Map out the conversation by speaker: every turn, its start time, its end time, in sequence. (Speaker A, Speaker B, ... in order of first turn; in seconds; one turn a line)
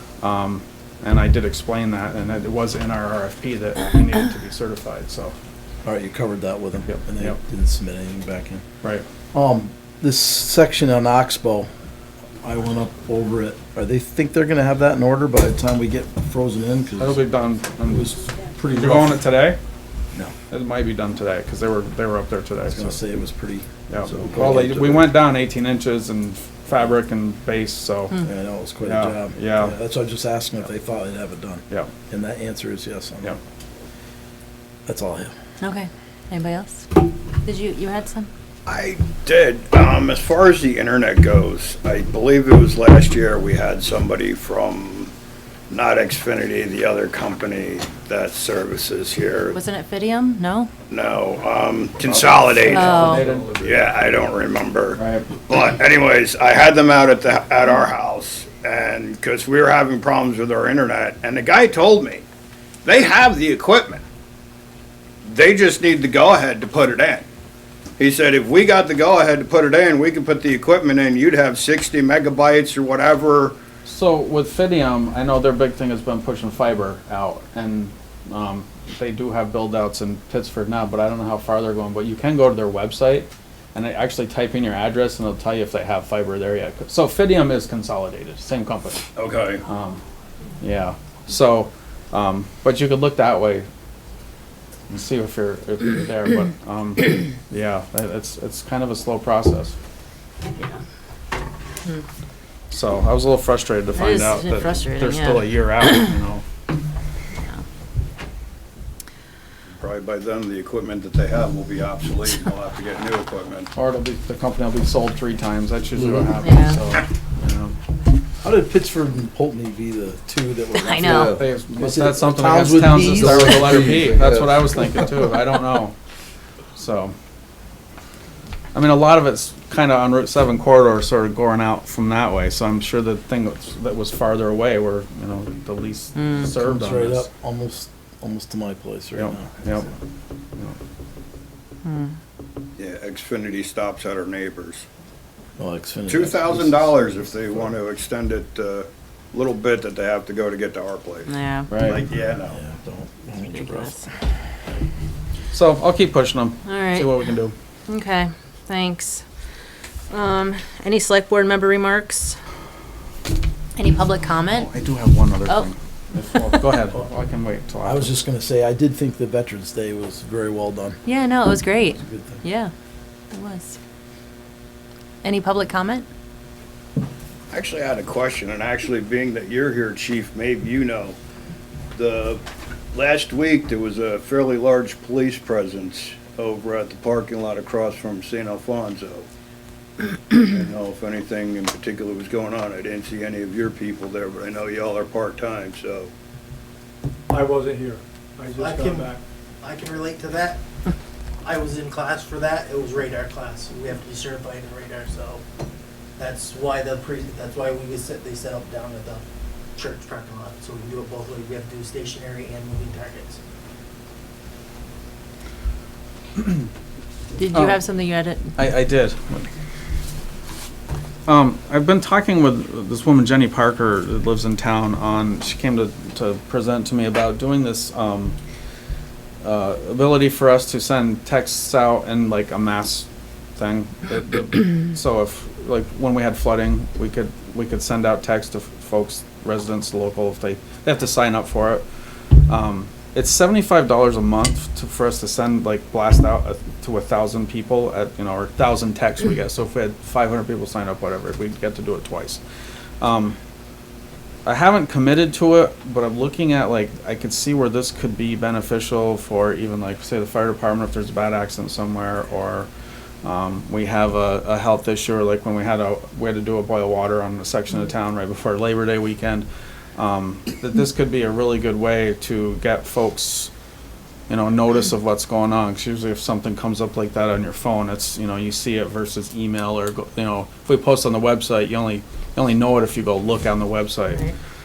Speaker A: 0.2-5.4
Speaker B: 5.8-8.7
Speaker A: 6.8-7.4
Speaker B: 9.3-11.7
Speaker B: 12.4-17.2
Speaker A: 17.0-18.1
Speaker B: 17.9-19.2
Speaker A: 18.7-19.6
Speaker A: 20.5-23.0
Speaker B: 22.6-25.1
Speaker A: 23.9-28.2
Speaker B: 28.2-33.4
Speaker A: 28.8-29.8
Speaker B: 34.9-35.3
Speaker C: 35.6-36.9
Speaker C: 37.4-38.3
Speaker D: 38.7-45.1
Speaker D: 45.7-49.6
Speaker C: 49.5-50.7
Speaker D: 50.9-52.9
Speaker A: 52.0-54.0
Speaker C: 52.7-53.3
Speaker D: 53.5-62.2
Speaker A: 55.0-55.3
Speaker D: 62.9-64.0
Speaker D: 65.2-67.3
Speaker D: 68.0-73.6
Speaker A: 73.8-89.1
Speaker D: 89.2-89.6
Speaker A: 89.7-90.0
Speaker A: 90.6-93.7
Speaker A: 94.9-99.8
Speaker A: 102.7-106.5
Speaker C: 104.0-106.0
Speaker C: 107.4-107.6
Speaker D: 109.7-113.7
Speaker A: 113.8-117.8
Speaker C: 116.4-116.8
Speaker B: 118.4-124.1
Speaker C: 120.7-121.4
Speaker A: 121.0-126.0
Speaker A: 126.8-127.2
Speaker A: 128.7-137.3
Speaker C: 136.2-136.5
Speaker B: 136.5-139.9
Speaker A: 139.2-139.9
Speaker C: 141.8-142.2
Speaker D: 142.8-144.9
Speaker B: 145.6-147.7
Speaker D: 146.1-152.6
Speaker C: 151.3-151.7
Speaker A: 151.7-152.0
Speaker B: 152.5-154.1
Speaker C: 153.6-154.1
Speaker A: 155.5-157.5
Speaker C: 156.7-157.1
Speaker C: 157.9-159.2
Speaker C: 160.1-162.4
Speaker C: 163.8-164.7
Speaker A: 164.5-168.1
Speaker B: 167.8-171.0
Speaker C: 171.1-172.7
Speaker B: 172.0-172.4
Speaker C: 173.3-173.8
Speaker C: 175.2-176.1
Speaker D: 177.5-181.2
Speaker D: 181.9-182.4
Speaker D: 182.9-189.3
Speaker D: 190.3-196.1
Speaker E: 197.3-199.2
Speaker F: 198.5-200.6
Speaker F: 201.4-205.4
Speaker F: 206.2-209.2
Speaker F: 209.8-213.4
Speaker C: 217.4-218.5
Speaker A: 217.5-217.8
Speaker A: 218.6-219.5
Speaker A: 221.3-228.4
Speaker A: 229.4-241.8
Speaker A: 242.4-252.4
Speaker A: 253.0-253.4
Speaker A: 254.4-262.7
Speaker A: 263.2-273.5
Speaker A: 274.3-284.2